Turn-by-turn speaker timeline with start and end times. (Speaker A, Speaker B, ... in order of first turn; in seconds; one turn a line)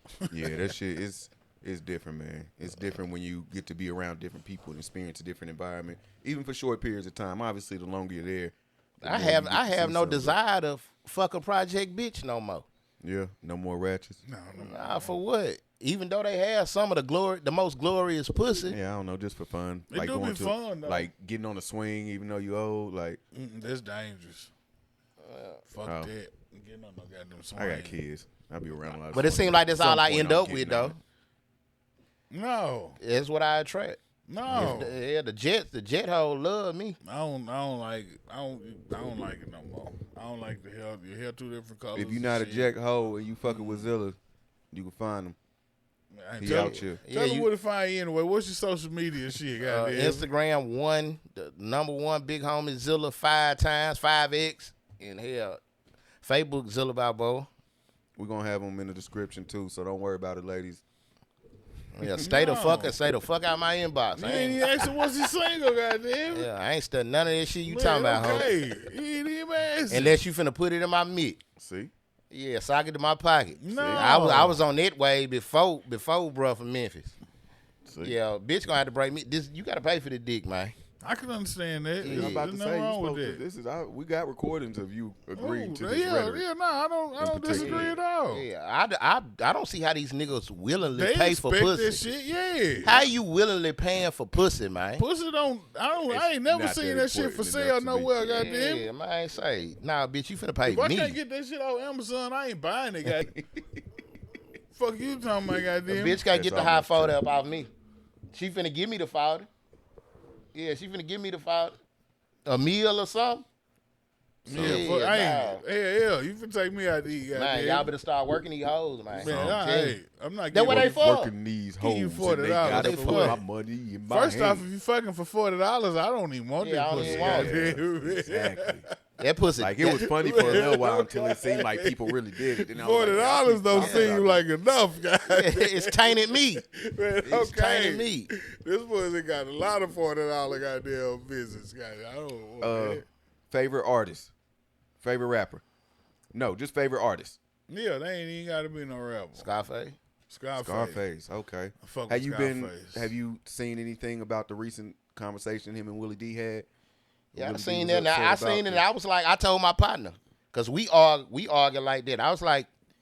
Speaker A: 0.3-10.4
Speaker B: 9.0-12.6
Speaker A: 13.0-14.2
Speaker C: 14.2-15.2
Speaker B: 14.6-18.8
Speaker A: 18.6-23.2
Speaker C: 19.9-21.1
Speaker C: 23.3-24.5
Speaker B: 25.2-25.6
Speaker C: 25.7-28.0
Speaker A: 25.8-26.1
Speaker A: 27.6-30.9
Speaker B: 29.1-31.0
Speaker C: 32.3-33.0
Speaker B: 33.0-34.0
Speaker C: 34.3-34.9
Speaker A: 34.5-34.9
Speaker B: 34.5-37.0
Speaker C: 37.0-42.7
Speaker A: 41.9-44.2
Speaker C: 43.5-43.9
Speaker A: 44.7-45.4
Speaker C: 46.1-50.3
Speaker A: 46.4-47.0
Speaker B: 46.4-47.5
Speaker B: 49.6-55.6
Speaker B: 56.2-57.5
Speaker A: 58.2-60.8
Speaker B: 61.9-64.7
Speaker C: 62.1-62.9
Speaker C: 64.1-66.5
Speaker B: 66.3-68.5
Speaker C: 67.6-70.2
Speaker B: 69.9-71.4
Speaker A: 71.6-71.9
Speaker B: 72.3-77.1
Speaker C: 73.6-74.6
Speaker A: 73.7-74.1
Speaker A: 77.8-78.2
Speaker B: 78.0-80.7
Speaker C: 81.0-83.4
Speaker B: 82.0-82.5
Speaker A: 82.0-86.5
Speaker C: 85.3-88.5
Speaker A: 87.2-88.0
Speaker B: 87.5-92.0
Speaker C: 90.8-93.0
Speaker B: 92.8-95.0
Speaker C: 95.0-98.9
Speaker A: 96.1-98.2
Speaker B: 98.2-101.2
Speaker C: 100.6-103.3
Speaker A: 103.0-103.8
Speaker C: 104.7-106.2
Speaker B: 105.9-107.7
Speaker A: 106.3-107.2
Speaker B: 108.3-109.5
Speaker B: 110.5-111.8
Speaker B: 112.5-113.5
Speaker A: 114.5-114.9
Speaker C: 114.5-117.9
Speaker B: 114.5-115.6
Speaker B: 117.3-120.0
Speaker A: 119.1-119.6
Speaker C: 119.1-121.0
Speaker B: 120.5-121.3
Speaker A: 120.7-124.7
Speaker C: 121.8-123.4
Speaker B: 122.7-123.4
Speaker C: 124.1-128.9
Speaker B: 126.6-127.6
Speaker A: 126.9-128.8
Speaker B: 129.2-130.7
Speaker A: 129.6-134.4
Speaker C: 129.9-143.1
Speaker B: 133.7-134.2
Speaker B: 135.3-136.6
Speaker B: 137.2-138.3
Speaker A: 142.6-144.3
Speaker A: 145.0-145.6
Speaker A: 146.3-147.4
Speaker C: 147.7-149.5
Speaker B: 149.3-150.0
Speaker C: 150.3-151.0
Speaker A: 150.6-156.7
Speaker C: 151.8-153.1
Speaker B: 157.3-162.7
Speaker A: 157.3-158.8